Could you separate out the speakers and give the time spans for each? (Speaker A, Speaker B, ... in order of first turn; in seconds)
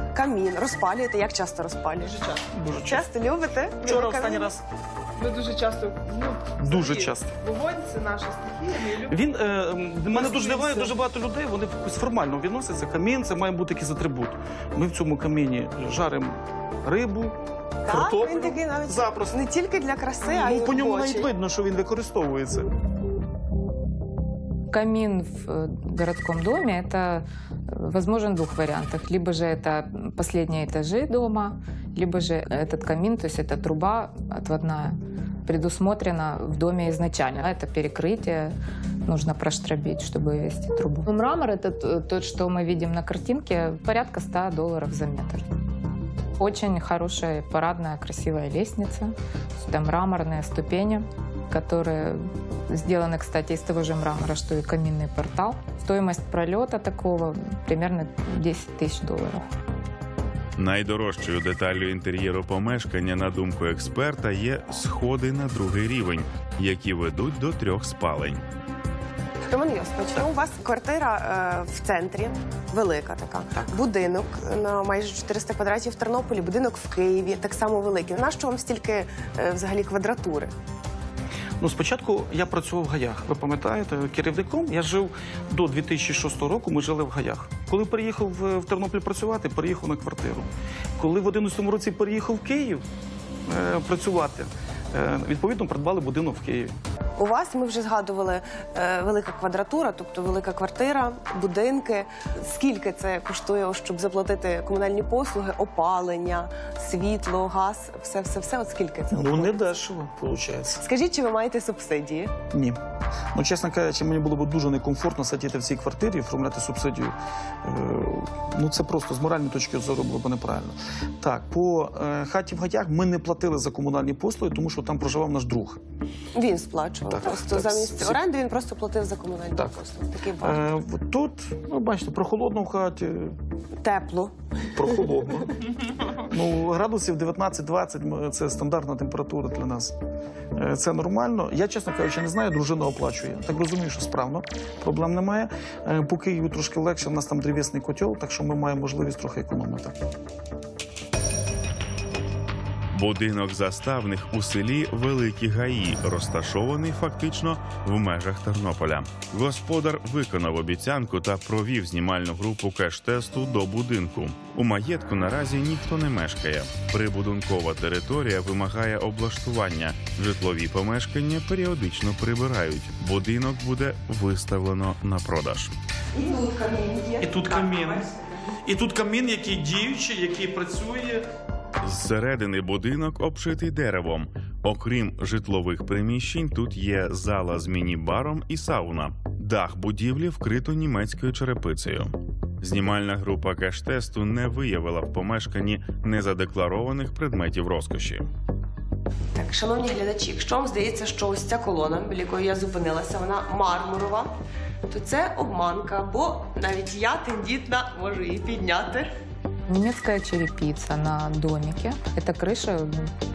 Speaker A: 0.1-2.2, 2.8-4.5, 17.9-21.3, 69.5-80.5, 97.2-109.6, 110.8-112.3, 126.3-130.6, 133.8-134.3, 134.8-135.1, 176.2-177.2, 199.3-204.3, 204.9-209.1
Speaker B: 2.0-2.5, 5.2-9.2, 10.1-10.7, 176.2-177.8
Speaker C: 2.5-3.1, 3.9-4.6, 6.6-7.3, 9.1-17.4, 17.9-19.4, 20.2-22.7, 81.6-92.8, 93.5-96.8, 109.1-110.8, 112.5-112.8, 113.3-125.8, 127.1-128.2, 130.4-133.3, 134.7-135.5, 136.3-139.9, 140.5-149.9, 177.2-178.1, 178.6-181.2
Speaker D: 24.7-38.5, 39.0-45.4, 46.4-59.4, 209.7-213.1
Speaker E: 60.6-68.4, 152.9-175.7, 181.8-198.2